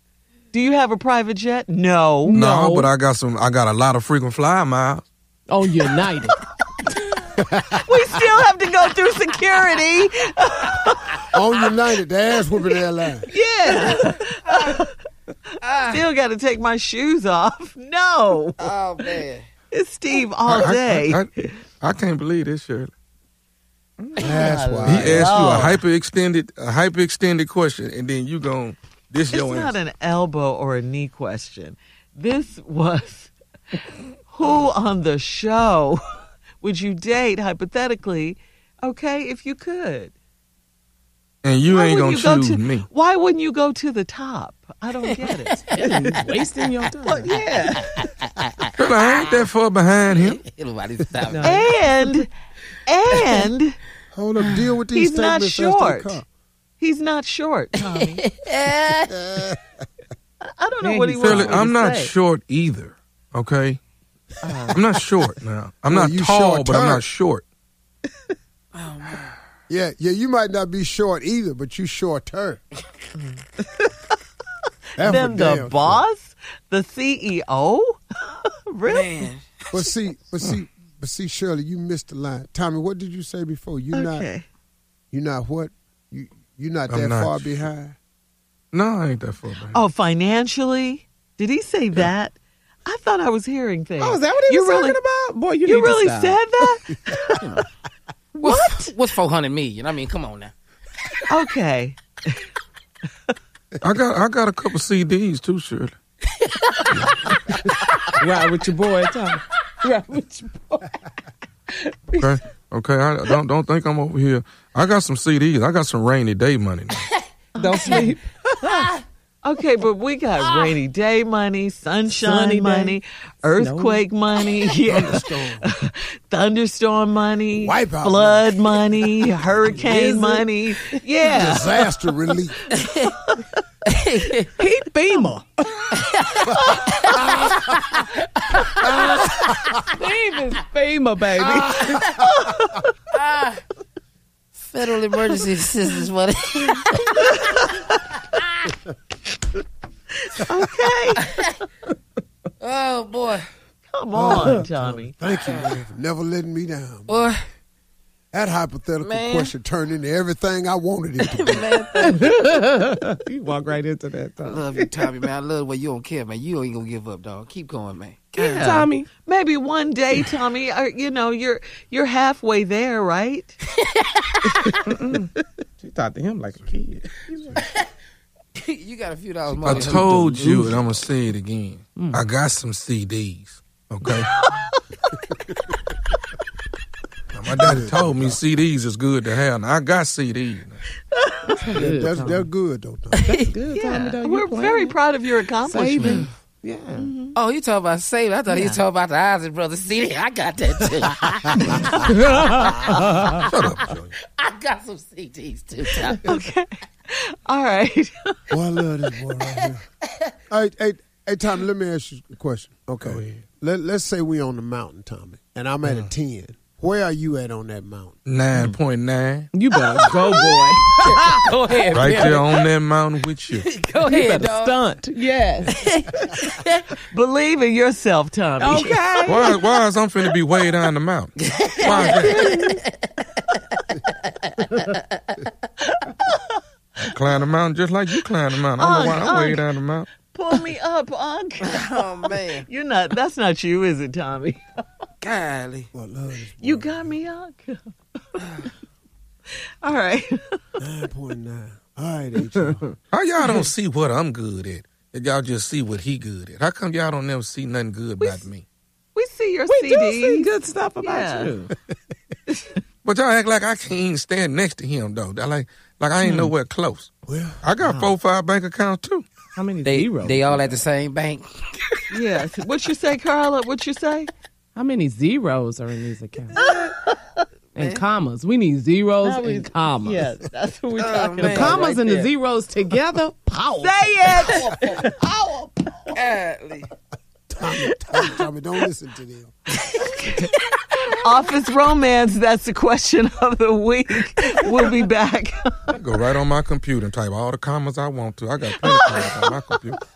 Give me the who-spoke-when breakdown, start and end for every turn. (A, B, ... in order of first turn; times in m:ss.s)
0:00.5-0:02.8 A
0:02.3-0:02.7 B
0:02.3-0:05.0 C
0:05.5-0:06.4 B
0:07.4-0:07.8 D
0:07.8-0:11.3 A
0:11.3-0:13.3 D
0:13.3-0:14.9 A
0:13.7-0:14.8 E
0:15.6-0:16.0 E
0:15.9-0:18.6 A
0:18.6-0:19.4 E
0:19.7-0:21.5 A
0:20.4-0:21.3 C
0:21.8-0:22.9 C
0:24.2-0:25.8 D
0:24.2-0:25.8 A
0:24.8-0:29.8 C
0:29.3-0:33.3 A
0:34.2-0:36.0 A
0:36.6-0:40.1 A
0:41.4-0:42.8 C
0:41.7-0:46.2 A
0:45.7-0:47.5 B
0:47.0-0:48.0 A
0:47.9-0:49.3 E
0:48.8-0:50.4 C
0:50.1-0:51.7 E
0:51.3-0:52.3 A
0:52.9-0:53.8 A
0:54.1-0:56.2 D
0:54.9-0:56.2 A
0:56.8-0:58.2 A
0:58.3-0:59.1 E
0:59.2-0:59.6 D
1:00.5-1:02.1 A
1:00.8-1:01.6 B
1:01.2-1:03.8 C
1:04.4-1:04.8 A
1:04.7-1:07.4 C
1:05.9-1:07.1 D
1:08.7-1:09.3 E
1:09.7-1:12.6 D
1:13.1-1:14.1 A
1:15.0-1:16.0 D
1:15.0-1:19.3 A
1:18.8-1:19.8 E
1:19.7-1:24.3 D
1:23.9-1:24.4 A
1:25.1-1:28.0 D
1:26.9-1:27.6 C
1:28.7-1:29.8 C
1:29.7-1:35.0 A
1:34.0-1:36.4 B
1:35.6-1:37.4 A
1:37.4-1:37.7 E
1:38.4-1:40.5 E
1:38.4-1:38.9 A
1:41.3-1:42.0 A
1:43.8-1:46.0 C
1:48.2-1:51.0 B
1:52.2-1:57.1 C
1:57.5-1:58.2 A
1:57.6-1:58.9 B
1:59.4-2:11.9 A
2:02.1-2:03.0 B
2:03.5-2:04.0 B
2:04.8-2:05.7 D
2:07.6-2:08.6 D
2:09.8-2:10.5 B
2:11.3-2:12.6 D
2:12.9-2:13.5 A
2:13.9-2:14.5 E
2:14.6-2:16.1 B
2:16.3-2:17.0 E
2:16.5-2:16.9 A
2:17.1-2:17.6 B
2:17.6-2:18.0 E
2:18.6-2:20.6 E
2:18.8-2:19.4 B
2:20.0-2:22.1 B
2:21.3-2:22.1 E
2:22.2-2:22.9 A
2:23.1-2:23.6 E
2:24.5-2:27.3 E
2:27.3-2:27.8 A
2:30.3-2:31.3 A
2:31.2-2:31.6 E
2:32.6-2:33.5 E
2:33.9-2:35.1 A
2:34.1-2:37.3 D
2:35.5-2:35.8 E
2:37.1-2:37.4 E
2:38.3-2:41.7 D
2:39.0-2:39.5 E
2:41.3-2:42.3 E
2:41.9-2:45.0 B
2:44.4-2:48.7 E
2:48.4-2:53.5 A
2:48.4-2:49.1 B
2:53.9-2:54.7 E
2:54.9-2:55.2 B
2:55.8-2:57.6 B
2:57.6-2:57.9 E
2:58.6-3:01.0 E
2:59.6-3:04.3 C
3:02.0-3:02.2 B
3:04.0-3:05.2 A
3:07.3-3:10.8 C
3:07.6-3:08.4 D
3:11.1-3:11.7 A
3:11.6-3:12.5 B
3:11.7-3:13.5 D
3:13.3-3:15.0 B
3:13.7-3:16.3 A
3:15.6-3:17.2 B
3:17.3-3:23.4 E
3:18.5-3:18.8 A
3:22.3-3:22.6 B
3:23.4-3:24.1 C
3:24.2-3:26.3 E
3:26.2-3:28.5 A
3:28.5-3:29.8 D
3:30.5-3:38.2 D
3:33.0-3:33.4 C
3:38.2-3:39.5 C
3:39.5-3:42.4 B
3:39.9-3:42.6 E
3:41.9-3:43.7 C
3:43.6-3:44.8 E
3:44.0-3:45.7 B
3:45.6-3:46.7 E
3:47.1-3:49.5 A
3:48.6-3:49.5 B
3:49.2-3:52.5 C
3:51.4-3:52.8 E
3:52.3-3:52.8 B
3:57.1-4:00.1 C
3:58.8-3:59.7 A
4:00.3-4:01.7 A
4:01.6-4:02.6 E
4:02.6-4:04.6 A
4:05.2-4:05.9 E
4:05.9-4:07.2 D
4:06.6-4:08.6 A
4:09.8-4:10.6 A
4:10.8-4:12.9 D
4:13.1-4:18.6 C
4:18.2-4:18.5 A
4:19.1-4:21.5 A
4:19.7-4:21.7 B
4:23.0-4:29.2 C
4:26.2-4:26.5 A
4:27.3-4:27.6 D
4:27.8-4:28.2 A
4:29.6-4:30.8 B
4:29.8-4:31.9 E
4:32.1-4:34.3 A
4:34.8-4:36.6 B
4:36.5-4:37.4 A
4:37.8-4:40.3 B
4:37.8-4:38.0 E
4:39.3-4:39.7 E
4:40.0-4:42.1 A
4:41.0-4:42.3 E
4:41.4-4:44.5 B
4:43.8-4:46.1 A
4:44.4-4:45.0 E
4:46.1-4:46.9 E
4:47.5-4:49.5 D
4:50.0-4:50.5 A
4:51.1-4:55.9 A
4:55.9-5:00.0 C
4:58.8-4:59.3 A